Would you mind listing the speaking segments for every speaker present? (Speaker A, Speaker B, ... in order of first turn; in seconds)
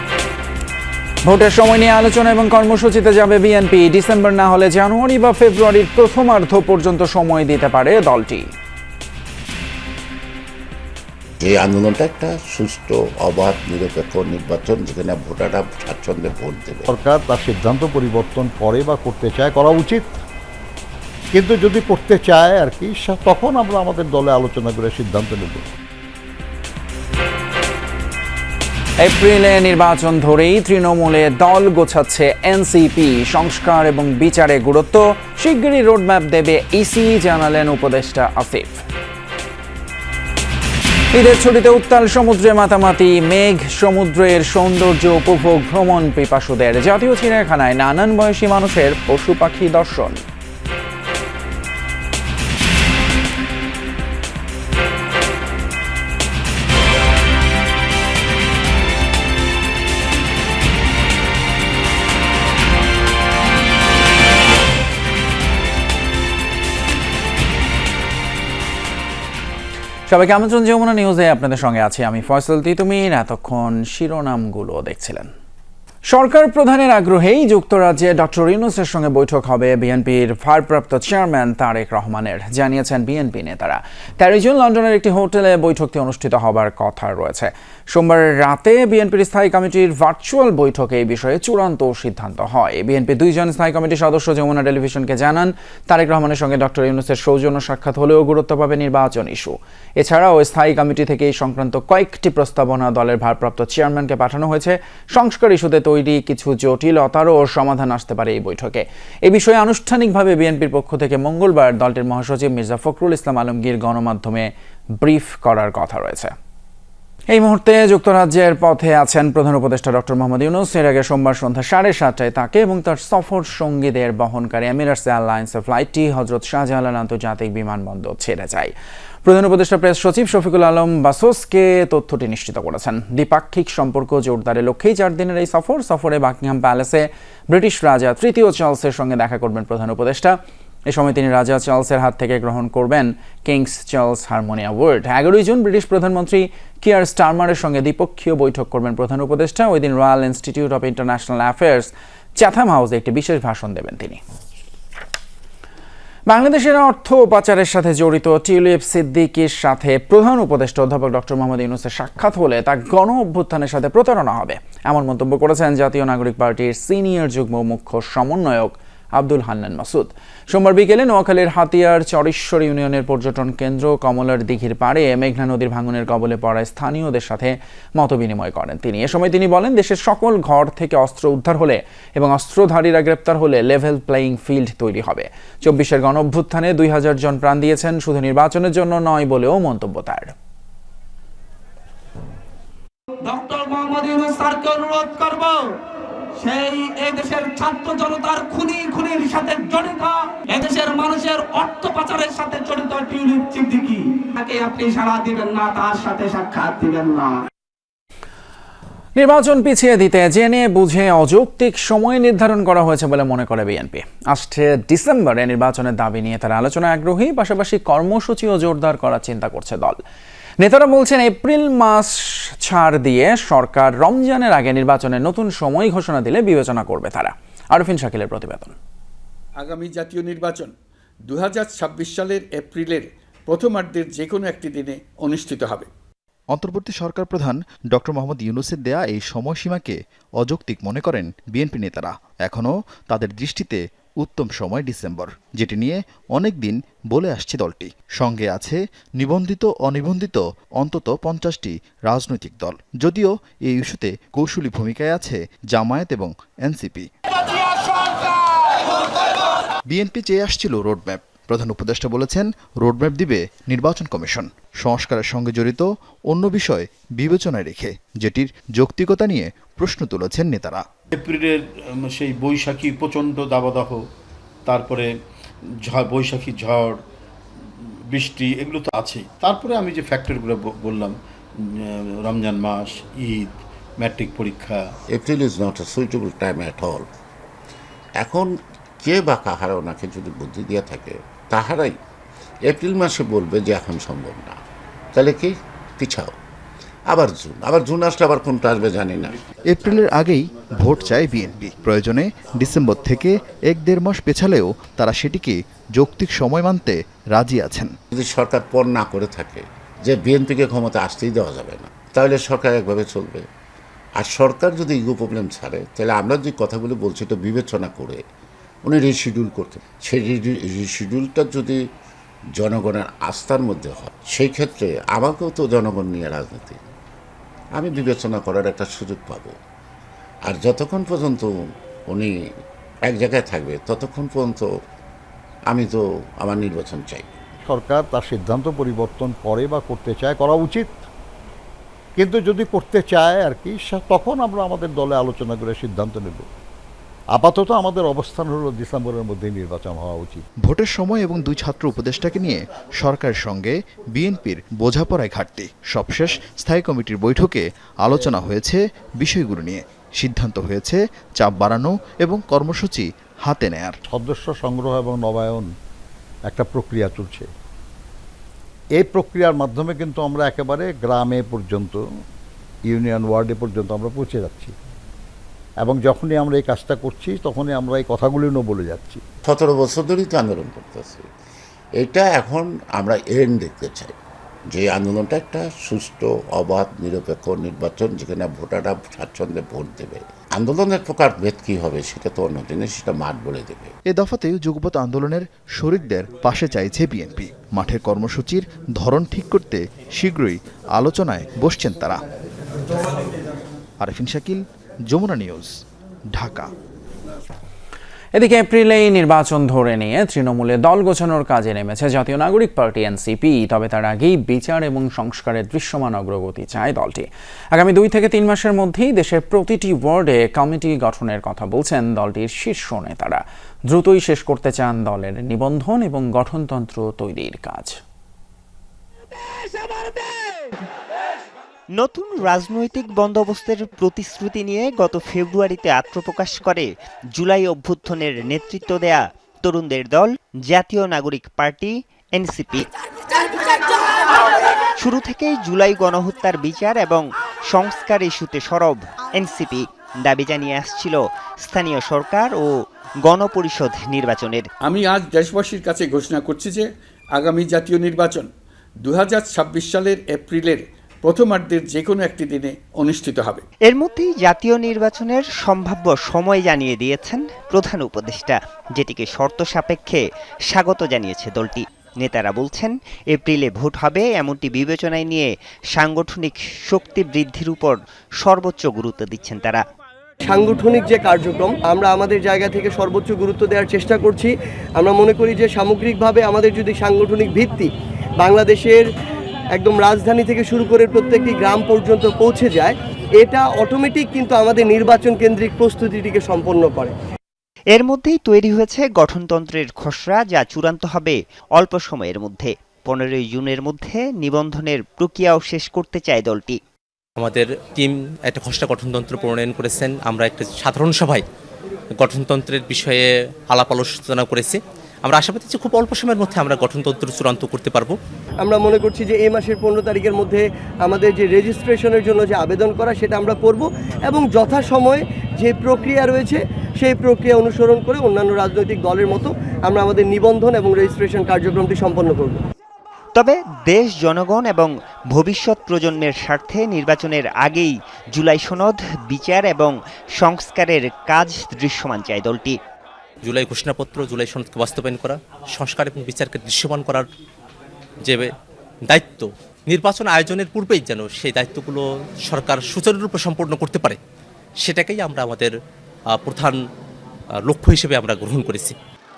Speaker A: 1.2-8.5, 29.0-38.8, 41.1-50.2, 70.1-75.3, 76.1-114.5, 115.0-116.3, 117.3-128.7, 129.2-140.3, 140.9-154.2, 156.3-190.3, 209.2-220.0, 220.6-228.7, 408.3-427.9
Speaker B: 11.4-16.9, 285.1-287.0, 288.2-291.9, 292.6-294.6, 295.1-296.3, 297.1-299.4, 308.1-313.4, 314.2-318.2, 318.8-321.8, 322.6-326.8, 327.8-329.6, 330.4-331.5, 333.0-334.7, 335.7-337.3, 379.4-381.2, 382.0-384.1, 384.7-393.9
Speaker C: 16.9-20.1, 21.3-25.6, 337.6-340.9, 342.1-346.4, 347.3-350.4, 364.1-365.7, 366.4-367.5, 368.9-372.0, 372.9-374.7, 375.8-379.2
Speaker D: 193.2-195.7, 196.4-207.4
Speaker E: 229.6-230.7, 231.3-235.9, 454.8-456.8, 457.4-458.5, 459.0-463.6
Speaker F: 236.5-257.1, 259.9-270.8, 299.7-307.9, 350.6-364.0, 394.1-402.2, 404.0-405.7, 406.3-406.7
Speaker G: 271.1-274.0, 274.7-275.1, 275.9-277.0, 278.1-281.1, 282.2-284.9
Speaker H: 431.9-442.9, 445.0-452.7, 453.2-454.7, 463.9-479.8, 497.9-506.8, 533.3-542.8
Speaker I: 480.4-489.0, 489.7-497.1, 518.6-532.6
Speaker J: 507.4-511.4, 512.1-518.1, 543.4-547.3, 548.2-548.5, 549.0-554.2, 554.8-555.7, 556.3-556.8, 557.6-559.0